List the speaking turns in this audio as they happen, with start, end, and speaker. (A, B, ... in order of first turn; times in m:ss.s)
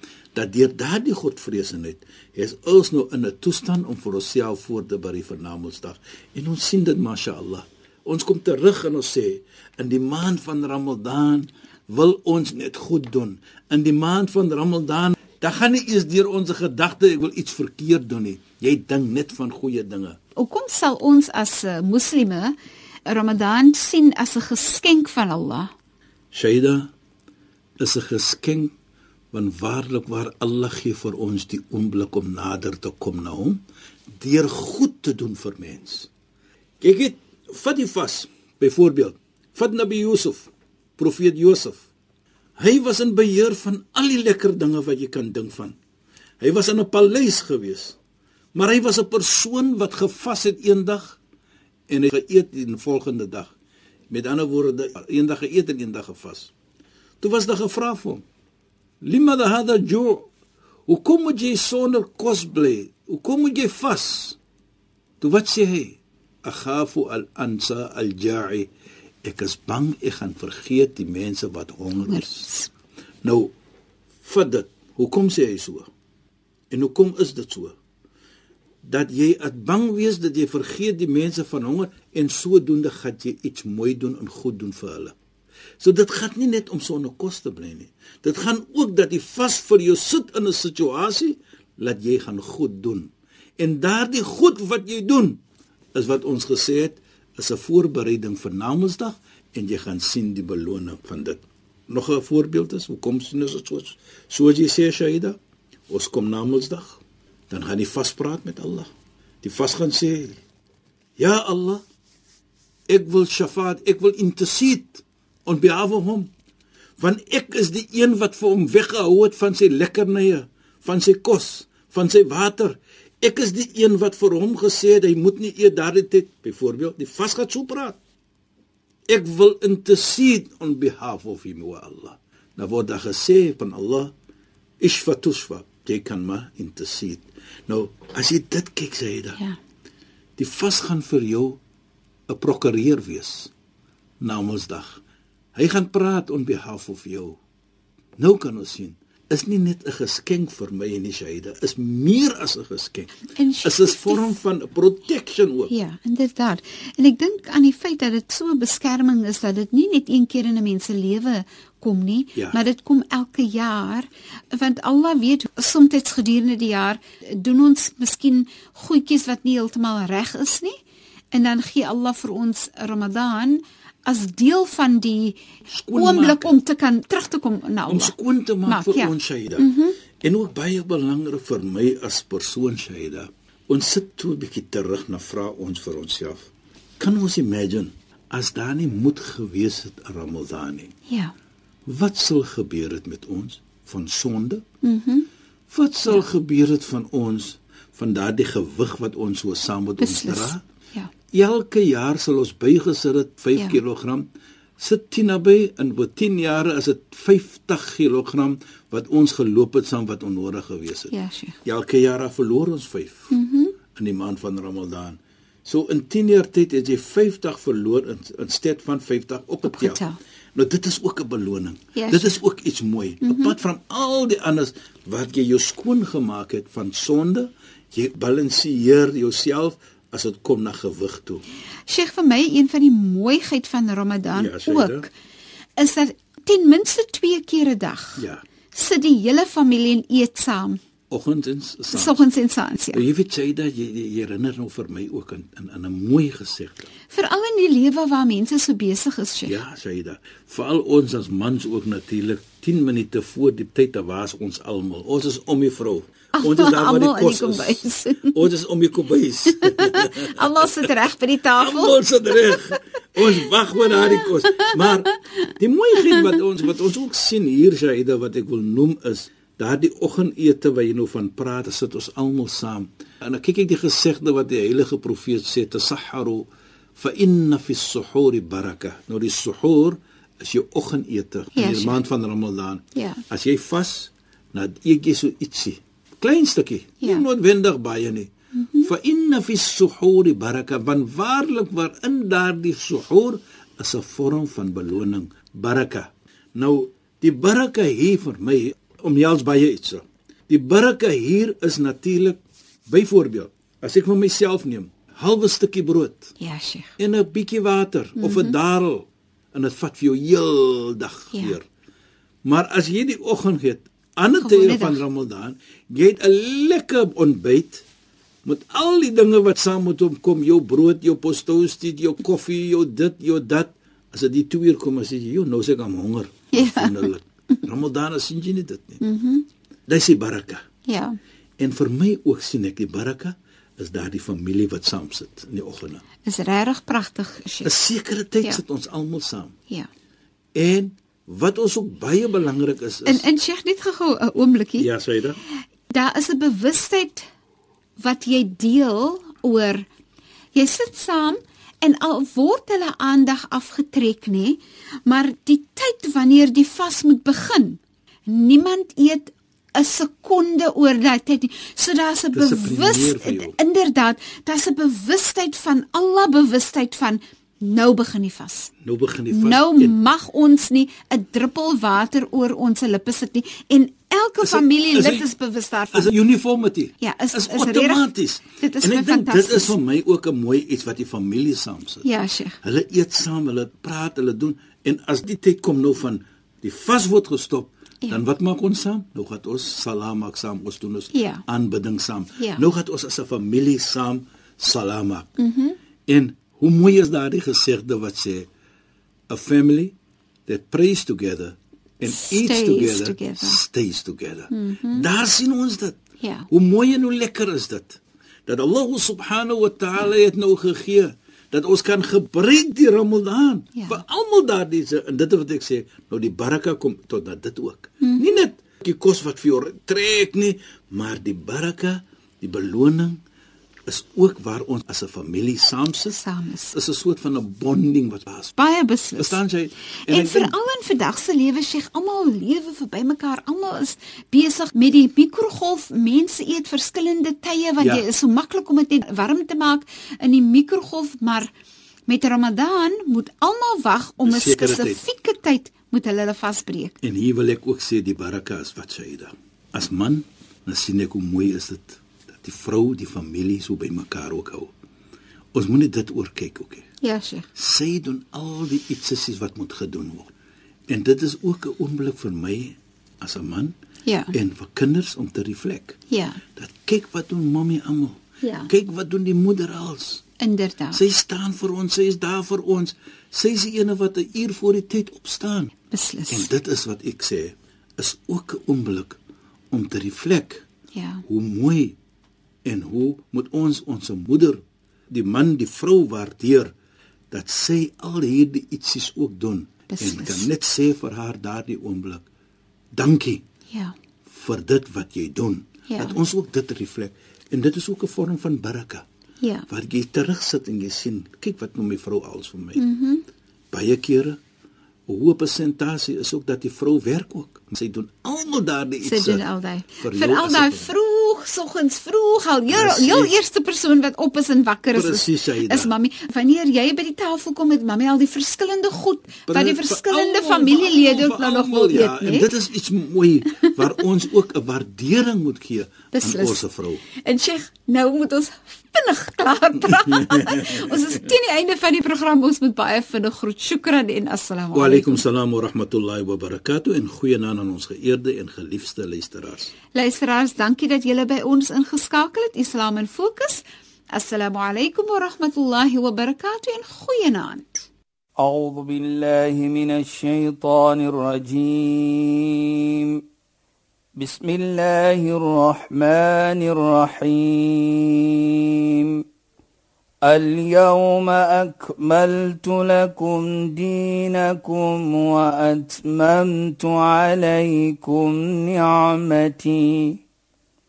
0:00.3-0:20.2 A
0:20.4-0:22.5 B
0:23.1-0:25.7 B
0:26.3-0:26.9 A
0:27.8-0:28.7 A
0:29.3-0:33.6 A
0:34.2-0:36.1 A
0:36.8-0:41.9 A
0:42.6-0:45.8 A
0:46.4-0:48.0 A
0:48.5-0:51.2 A
0:51.9-0:53.5 A
0:54.1-0:56.5 A
0:57.2-0:58.2 A
0:59.0-1:00.3 A
1:00.9-1:04.4 A
1:05.2-1:08.7 A
1:09.2-1:12.5 A
1:11.9-1:12.7 B
1:13.2-1:13.5 A
1:14.2-1:15.9 A
1:16.7-1:17.7 A
1:18.8-1:25.1 A
1:25.8-1:35.4 A
1:35.9-1:45.4 A
1:45.9-1:48.9 A
1:49.4-1:50.4 A
1:51.2-1:51.8 A
1:52.9-1:56.3 A
1:57.0-2:08.0 A
2:09.1-2:14.1 A
2:14.8-2:19.4 A
2:20.4-2:21.6 A
2:22.3-2:23.5 A
2:24.2-2:25.0 A
2:25.5-2:27.4 A
2:28.2-2:35.7 A
2:33.3-2:34.3 B
2:35.7-2:50.7 B
2:51.3-2:55.4 B
2:55.7-2:56.6 A
2:55.9-2:58.1 B
2:57.9-2:59.7 A
2:58.6-3:00.0 B
3:00.2-3:10.9 A
3:11.1-3:11.3 B
3:11.8-3:14.6 A
3:14.8-3:15.3 B
3:15.7-3:20.6 A
3:20.0-3:21.1 B
3:21.3-3:31.1 A
3:31.1-3:31.6 B
3:31.6-3:33.3 A
3:33.3-3:33.8 B
3:33.9-3:40.0 A
3:39.6-3:40.2 B
3:40.5-3:51.4 A
3:41.9-3:42.4 B
3:43.2-3:43.5 B
3:51.9-3:55.1 B
3:54.3-3:55.1 A
3:55.8-4:00.8 B
3:58.2-3:58.4 A
4:01.1-4:02.2 A
4:01.9-4:03.0 B
4:02.9-4:06.9 A
4:07.1-4:09.6 B
4:09.4-4:20.9 A
4:16.3-4:18.4 B
4:19.5-4:22.8 B
4:21.5-4:36.4 A
4:23.9-4:24.7 B
4:26.0-4:26.4 B
4:37.0-4:48.3 A
4:41.5-4:42.0 B
4:42.9-4:43.2 B
4:47.0-4:47.2 B
4:48.5-4:48.9 B
4:48.8-5:06.3 A
5:06.4-5:06.9 B
5:07.0-5:11.6 A
5:08.2-5:08.6 B
5:12.4-5:17.8 A
5:14.4-5:15.0 B
5:18.4-5:29.0 A
5:26.5-5:27.6 B
5:29.0-5:29.5 B
5:29.9-5:30.6 A
5:30.8-5:31.2 B
5:31.6-5:36.0 A
5:36.2-5:37.7 B
5:37.6-5:39.5 A
5:40.5-5:43.2 A
5:43.0-5:44.9 B
5:44.8-5:45.4 A
5:45.9-5:47.3 B
5:48.0-5:49.9 B
5:50.5-6:08.7 B
6:02.3-6:03.6 A
6:08.8-6:10.0 A
6:09.3-6:16.2 B
6:14.4-6:15.3 A
6:15.9-6:22.1 A
6:17.0-6:19.8 B
6:22.0-6:22.6 B
6:22.6-6:35.3 A
6:31.1-6:31.4 B
6:32.4-6:32.6 B
6:35.4-6:35.8 B
6:36.1-6:38.5 A
6:39.3-6:39.9 A
6:40.5-6:46.0 A
6:42.0-6:43.6 B
6:44.5-6:45.0 B
6:46.2-6:46.5 B
6:46.5-7:03.2 A
6:53.7-6:54.0 B
6:58.0-6:58.3 B
7:03.9-7:06.2 A
7:06.1-7:06.8 B
7:06.7-7:08.6 A
7:08.6-7:09.4 B
7:09.2-7:10.5 A
7:10.1-7:21.5 B
7:17.8-7:18.1 A
7:22.1-7:27.0 B
7:24.2-7:25.0 A
7:27.0-7:34.7 A
7:35.5-7:36.8 A
7:37.0-7:37.5 B
7:37.5-7:40.3 A
7:40.9-7:43.7 A
7:44.0-7:44.3 B
7:44.3-7:46.0 A
7:46.1-7:46.4 B
7:46.6-7:50.2 A
7:48.4-7:48.7 B
7:50.4-7:51.0 B
7:50.9-7:55.7 A
7:55.9-7:56.5 B
7:56.3-7:59.2 A
7:59.7-8:00.6 A
8:00.9-8:01.2 B
8:01.3-8:02.0 A
8:02.6-8:06.7 A
8:07.3-8:12.3 A
8:09.9-8:10.5 B
8:12.9-8:13.4 A
8:13.7-8:13.9 B
8:14.2-8:19.0 A
8:15.9-8:16.2 B
8:19.4-8:19.7 B
8:19.7-8:22.8 A
8:22.8-8:23.2 B
8:23.7-8:24.4 A
8:25.1-8:29.4 A
8:29.0-8:42.5 B
8:30.0-8:30.9 A
8:32.7-8:33.3 A
8:34.9-8:35.9 A
8:39.5-8:47.0 A
8:46.1-8:46.6 B
8:47.2-8:55.2 B
8:49.8-8:51.0 A
8:54.7-8:59.7 A
8:59.9-9:03.6 B
9:04.1-9:07.9 B
9:08.4-9:13.2 C
9:14.2-9:19.2 C
9:20.2-9:30.2 C